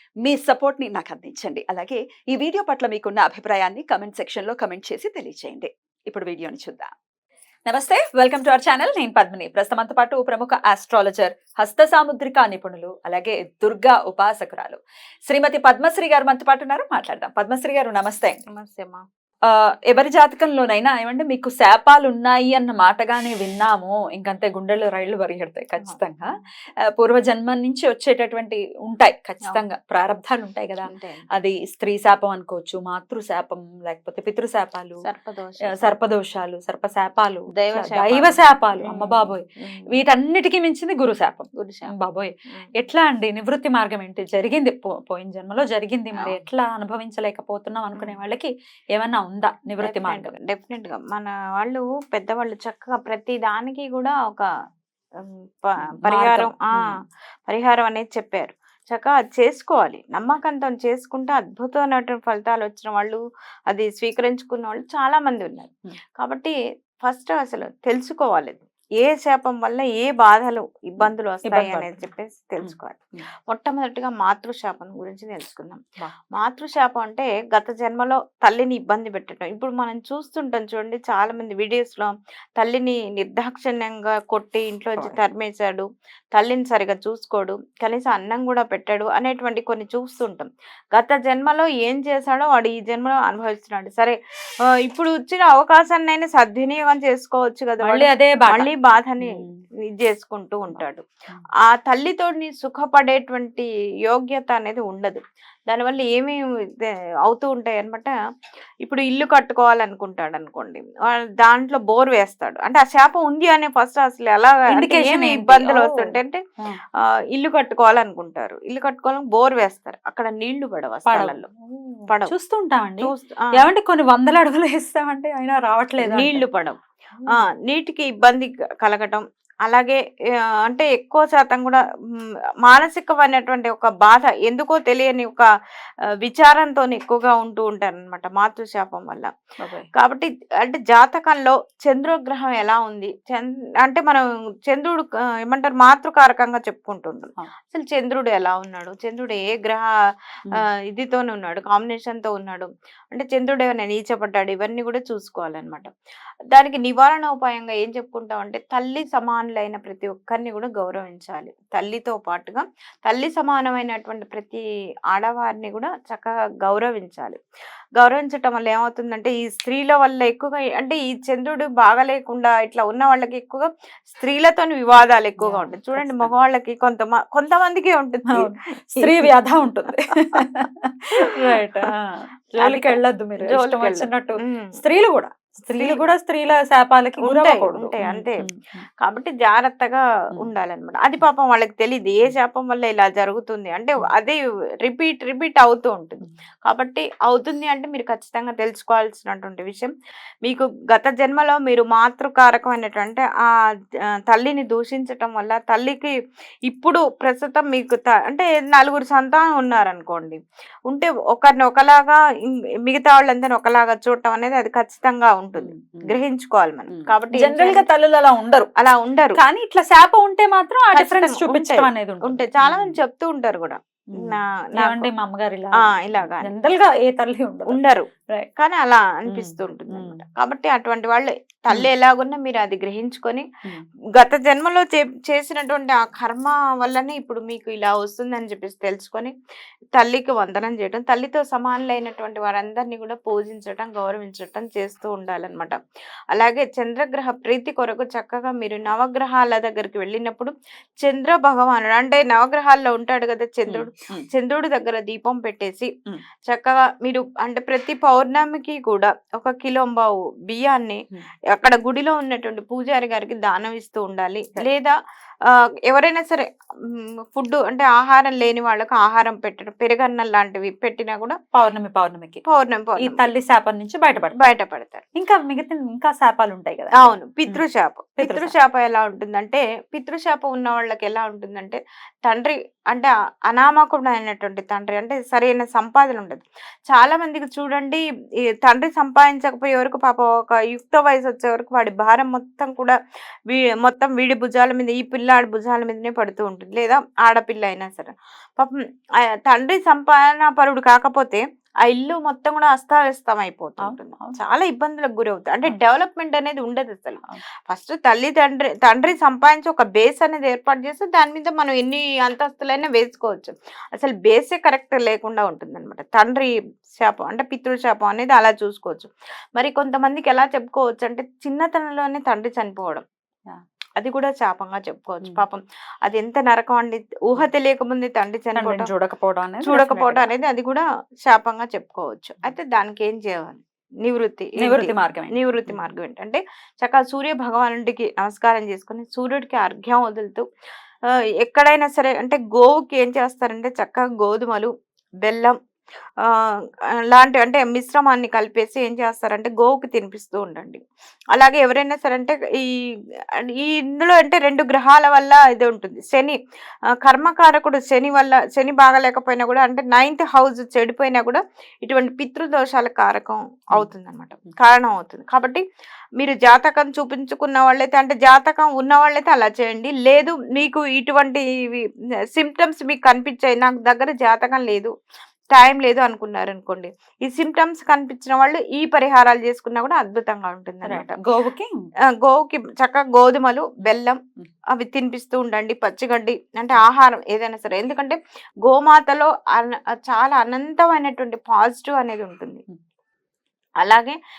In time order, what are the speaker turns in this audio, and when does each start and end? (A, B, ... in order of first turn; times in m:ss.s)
0:00.2-0:06.9 A
0:07.7-0:18.4 A
0:18.5-0:19.0 B
0:19.5-0:26.3 A
0:25.8-0:26.4 B
0:26.9-0:35.0 A
0:30.8-0:31.3 B
0:35.0-0:35.9 B
0:35.7-0:50.3 A
0:37.5-0:39.9 B
0:41.6-0:41.9 B
0:49.8-0:54.5 B
0:55.6-0:56.9 B
0:56.0-0:56.9 A
0:57.5-1:03.2 B
1:03.7-1:15.8 B
1:11.0-1:12.0 A
1:12.6-1:13.2 A
1:16.4-1:34.2 B
1:34.8-1:39.4 B
1:37.8-1:38.7 A
1:39.2-1:39.6 A
1:39.9-1:41.0 B
1:40.8-1:41.4 A
1:41.6-1:48.1 B
1:48.8-1:56.4 B
1:54.7-1:56.8 A
1:57.3-2:01.4 B
2:01.0-2:06.4 A
2:02.1-2:02.3 B
2:03.0-2:03.4 B
2:06.0-2:06.8 B
2:07.2-2:07.5 A
2:07.6-2:11.8 B
2:12.6-2:15.4 B
2:16.2-2:19.3 B
2:19.6-2:19.9 A
2:19.9-2:29.9 B
2:30.8-2:35.9 B
2:36.5-2:47.4 B
2:48.0-2:59.3 B
2:55.4-2:56.3 A
2:58.3-3:08.8 A
3:02.6-3:04.8 B
3:05.7-3:06.0 B
3:07.2-3:08.5 B
3:09.0-3:19.9 B
3:20.4-3:23.4 B
3:24.3-3:26.1 B
3:26.7-3:30.4 B
3:30.9-3:37.8 B
3:35.6-3:36.2 A
3:36.9-3:38.7 A
3:38.8-3:39.4 B
3:39.4-3:43.0 A
3:40.9-3:45.1 B
3:44.1-3:47.8 A
3:45.8-3:46.5 B
3:47.7-3:53.5 B
3:49.3-3:50.2 A
3:54.2-3:59.3 B
4:00.0-4:05.8 B
4:06.3-4:15.9 B
4:13.7-4:14.3 A
4:16.5-4:24.9 B
4:25.5-4:31.4 B
4:31.5-4:32.4 A
4:32.4-4:33.3 B
4:33.0-4:34.5 A
4:34.4-4:35.0 B
4:35.2-4:37.6 A
4:37.0-4:48.0 B
4:38.2-4:38.5 A
4:48.6-4:53.0 B
4:53.5-5:23.0 B
5:03.8-5:04.4 A
5:24.0-5:28.9 B
5:28.6-5:30.3 A
5:29.6-5:40.4 B
5:34.6-5:35.8 A
5:41.4-5:44.7 B
5:45.2-5:45.6 B
5:46.2-5:46.5 B
5:47.1-5:52.7 B
5:53.4-5:56.4 B
5:57.0-6:05.6 B
6:06.2-6:14.9 B
6:15.5-6:21.2 B
6:20.8-6:21.8 A
6:22.2-6:24.2 B
6:24.7-6:32.6 B
6:33.8-6:34.2 B